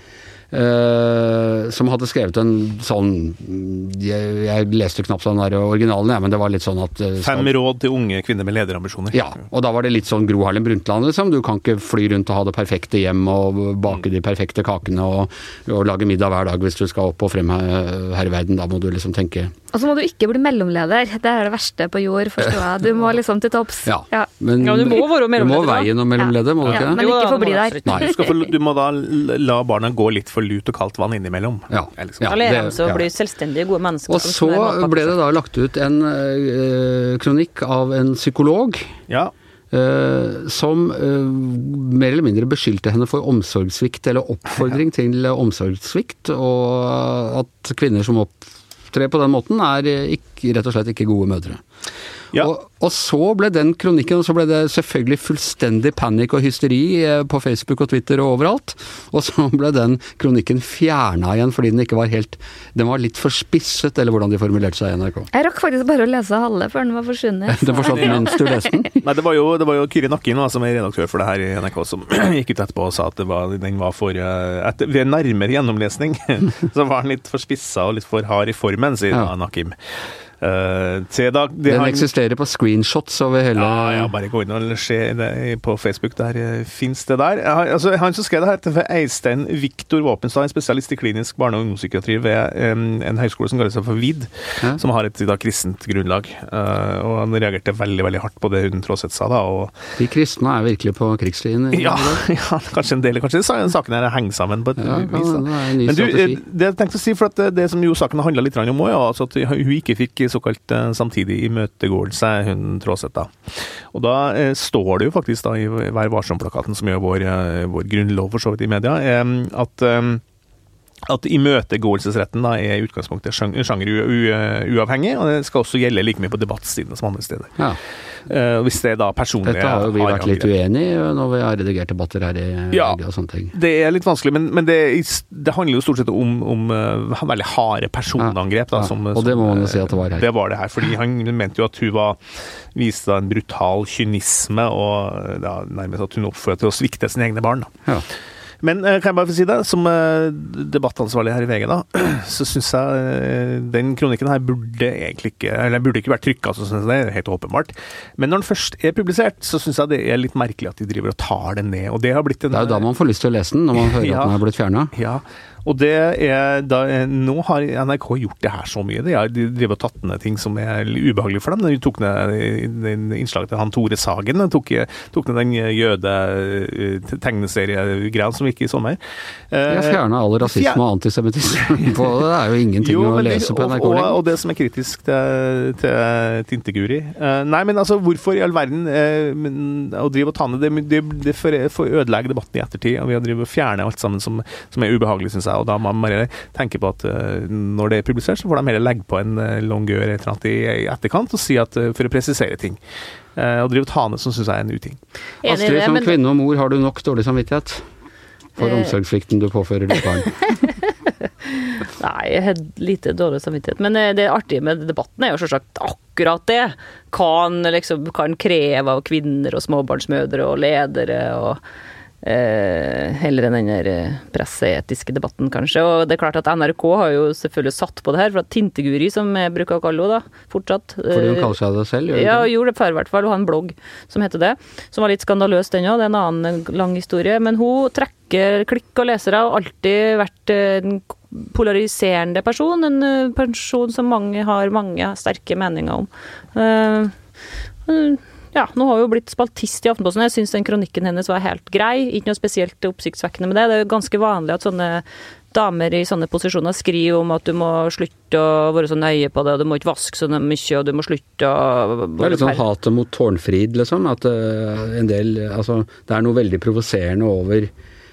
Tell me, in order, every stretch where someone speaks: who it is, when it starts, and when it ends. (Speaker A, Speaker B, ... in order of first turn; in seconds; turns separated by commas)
Speaker A: 0.5-7.5, Speaker B: 7.2-9.2, Speaker A: 9.1-19.5, Speaker C: 19.7-24.3, Speaker A: 23.9-27.0, Speaker D: 24.6-25.9, Speaker C: 26.2-28.4, Speaker D: 26.9-28.1, Speaker B: 28.0-32.4, Speaker A: 31.7-33.0, Speaker D: 32.2-35.2, Speaker A: 34.1-38.9, Speaker A: 39.7-51.6, Speaker A: 52.4-65.3, Speaker C: 65.3-68.7, Speaker A: 67.5-69.0, Speaker B: 67.8-68.2, Speaker B: 69.0-79.8, Speaker B: 80.4-82.1, Speaker A: 81.7-84.1, Speaker B: 83.6-99.8, Speaker A: 100.0-102.2, Speaker B: 101.7-120.2, Speaker A: 104.8-106.4, Speaker B: 121.1-127.6, Speaker B: 128.3-130.5, Speaker A: 129.4-133.5, Speaker B: 132.7-133.0, Speaker B: 133.5-142.2, Speaker A: 138.2-140.3, Speaker B: 142.8-147.7, Speaker B: 148.6-162.9, Speaker A: 162.5-164.9, Speaker B: 163.8-164.4, Speaker B: 164.9-179.0, Speaker B: 179.5-180.8, Speaker A: 179.7-184.2, Speaker B: 181.7-182.2, Speaker B: 182.8-202.8, Speaker B: 203.4-205.0, Speaker D: 205.4-206.2, Speaker A: 205.4-207.8, Speaker A: 208.6-210.4, Speaker D: 208.6-208.9, Speaker D: 210.0-210.7, Speaker D: 212.0-221.6, Speaker D: 222.2-231.6, Speaker A: 231.1-232.5, Speaker D: 232.1-247.1, Speaker D: 247.9-262.6, Speaker A: 262.2-267.7